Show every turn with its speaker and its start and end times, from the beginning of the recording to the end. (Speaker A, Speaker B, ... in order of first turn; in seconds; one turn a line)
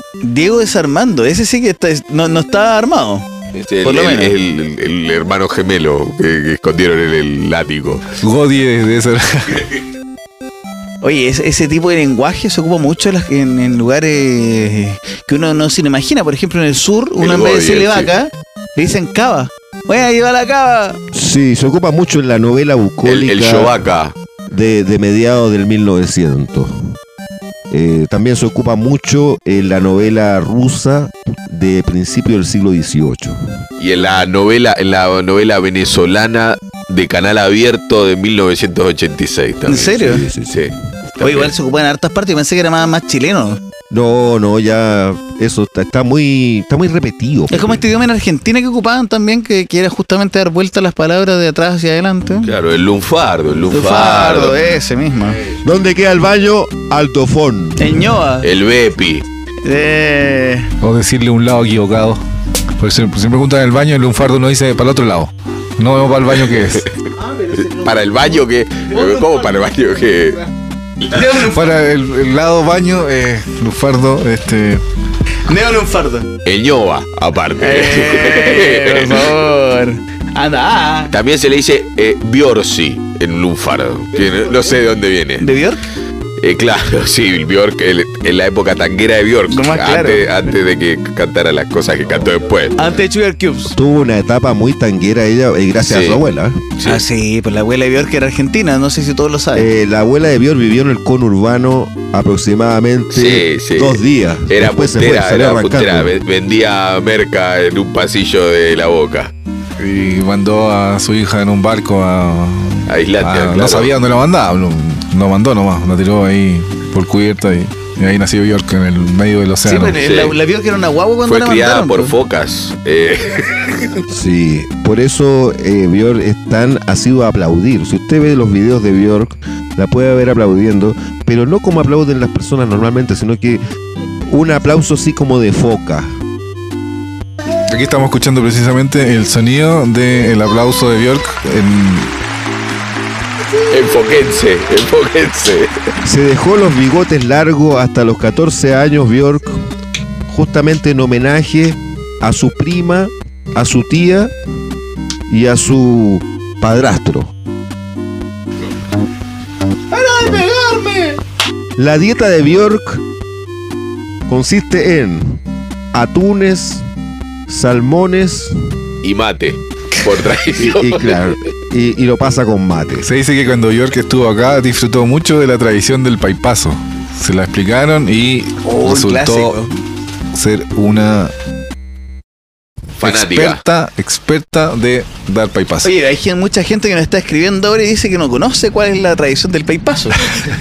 Speaker A: 0.2-3.3
Speaker B: 3.5-8.1
Speaker A: 3.8-4.3
Speaker C: 8.2-9.8
Speaker A: 11.0-21.0
Speaker B: 17.2-18.1
Speaker D: 21.1-23.8
Speaker B: 23.0-24.1
Speaker D: 24.5-26.9
Speaker D: 27.7-33.4
Speaker B: 33.8-41.5
Speaker A: 39.7-40.3
Speaker D: 39.9-40.7
Speaker A: 41.2-43.6
Speaker D: 43.9-47.9
Speaker A: 47.5-52.5
Speaker B: 52.4-54.6
Speaker A: 53.7-55.4
Speaker D: 55.6-58.1
Speaker A: 57.8-58.5
Speaker B: 58.4-59.2
Speaker A: 59.6-60.7
Speaker C: 60.8-62.2
Speaker C: 62.8-66.9
Speaker A: 67.2-68.3
Speaker B: 67.5-70.5
Speaker A: 68.9-69.5
Speaker A: 71.1-71.6
Speaker C: 71.4-74.8
Speaker A: 75.5-76.3
Speaker B: 76.4-79.4
Speaker A: 77.6-81.1
Speaker B: 81.1-85.5
Speaker A: 85.4-85.8
Speaker B: 86.4-92.8
Speaker A: 89.5-90.5
Speaker A: 92.8-93.8
Speaker D: 93.7-96.6
Speaker B: 95.8-96.2
Speaker B: 96.8-97.0
Speaker A: 96.8-99.7
Speaker D: 99.5-106.1
Speaker B: 103.1-109.3
Speaker C: 109.8-120.0
Speaker B: 112.9-113.9
Speaker A: 119.6-122.2
Speaker B: 120.0-120.4
Speaker B: 121.2-123.9
Speaker D: 124.1-133.6
Speaker D: 134.3-136.1
Speaker C: 137.7-142.1
Speaker B: 143.7-145.7
Speaker D: 146.1-149.7
Speaker D: 150.3-154.3
Speaker D: 155.3-157.3
Speaker A: 159.9-161.2
Speaker D: 161.8-163.0
Speaker D: 164.3-165.4
Speaker D: 165.9-166.8
Speaker D: 167.5-168.6
Speaker B: 169.0-171.3
Speaker D: 170.6-173.1
Speaker C: 173.0-179.6
Speaker A: 178.7-179.7
Speaker C: 180.3-181.3
Speaker B: 183.0-183.6
Speaker C: 183.0-185.9
Speaker A: 185.8-190.4